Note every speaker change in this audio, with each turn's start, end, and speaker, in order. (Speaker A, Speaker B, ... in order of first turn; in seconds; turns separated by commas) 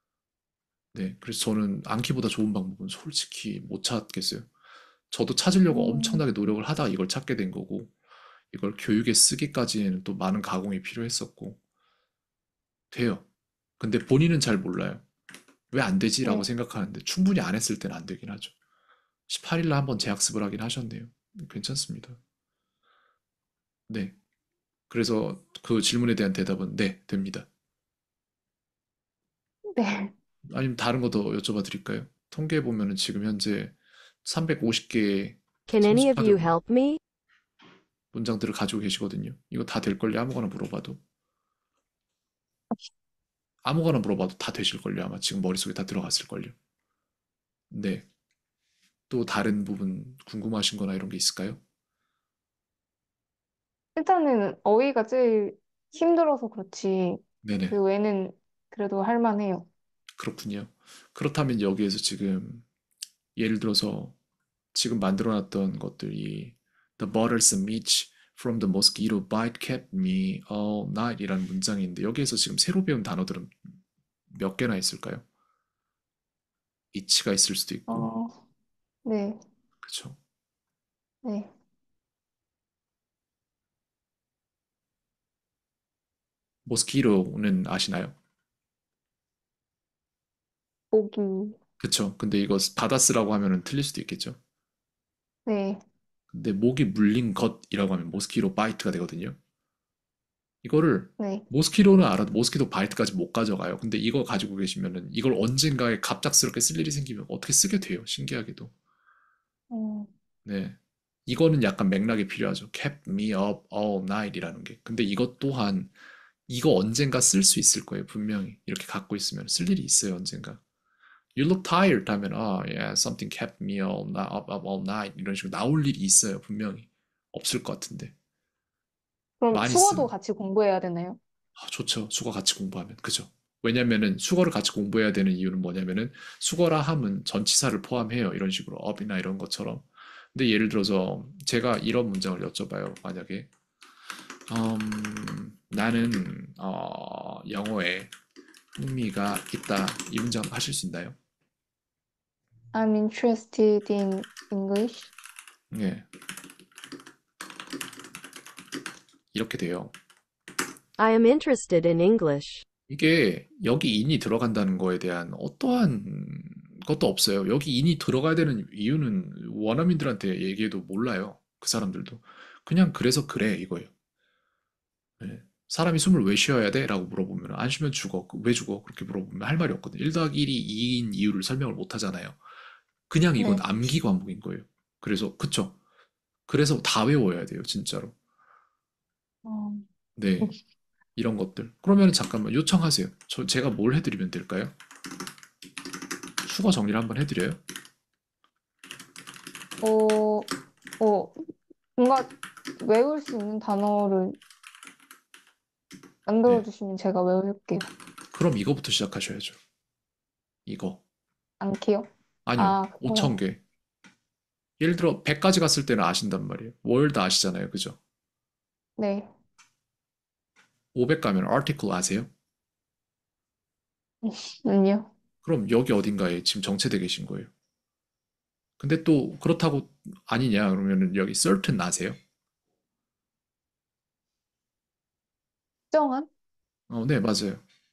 Speaker A: 0.9-4.5, Speaker A: 5.1-7.9, Speaker B: 5.7-6.2, Speaker A: 8.5-11.6, Speaker A: 12.9-13.2, Speaker A: 13.8-15.0, Speaker A: 15.7-18.5, Speaker A: 19.3-22.2, Speaker A: 23.9-24.1, Speaker A: 24.9-27.5, Speaker B: 29.7-30.1, Speaker A: 30.5-36.5, Speaker C: 35.7-37.0, Speaker A: 38.1-41.0, Speaker A: 43.6-46.5, Speaker A: 47.7-48.0, Speaker A: 49.1-51.6, Speaker B: 53.9-59.7, Speaker A: 57.4-57.8, Speaker A: 60.2-62.6, Speaker A: 63.4-64.1, Speaker A: 64.7-73.7, Speaker A: 74.3-75.2, Speaker A: 76.9-78.1, Speaker B: 77.9-78.3, Speaker B: 79.0-79.4, Speaker A: 79.8-80.2, Speaker B: 81.2-81.5, Speaker A: 86.6-88.1, Speaker B: 90.9-91.6, Speaker A: 91.8-94.4, Speaker B: 95.5-95.8, Speaker A: 96.3-99.4, Speaker A: 100.6-108.7, Speaker B: 101.2-101.4, Speaker B: 109.7-110.1, Speaker A: 110.4-115.9, Speaker A: 116.5-120.6, Speaker A: 121.3-128.1, Speaker B: 129.4-131.2, Speaker A: 129.5-130.1, Speaker A: 131.6-143.5, Speaker A: 144.5-148.1, Speaker A: 148.7-151.2, Speaker B: 152.7-155.1, Speaker A: 155.7-156.1, Speaker A: 159.3-159.9, Speaker C: 161.0-162.6, Speaker A: 162.9-173.9, Speaker A: 175.2-182.4, Speaker A: 183.1-185.8, Speaker A: 186.5-188.1, Speaker B: 189.4-189.8, Speaker A: 190.2-190.6, Speaker A: 191.2-194.7, Speaker A: 196.4-197.6, Speaker B: 199.8-204.4, Speaker B: 206.2-207.9, Speaker A: 208.3-209.6, Speaker A: 210.7-211.0, Speaker B: 211.6-213.4, Speaker A: 212.4-213.6, Speaker A: 214.8-218.0, Speaker B: 219.0-219.3, Speaker A: 220.9-222.3, Speaker B: 224.2-225.1, Speaker A: 225.4-227.5, Speaker A: 228.8-232.2, Speaker B: 235.9-236.3, Speaker A: 236.9-237.6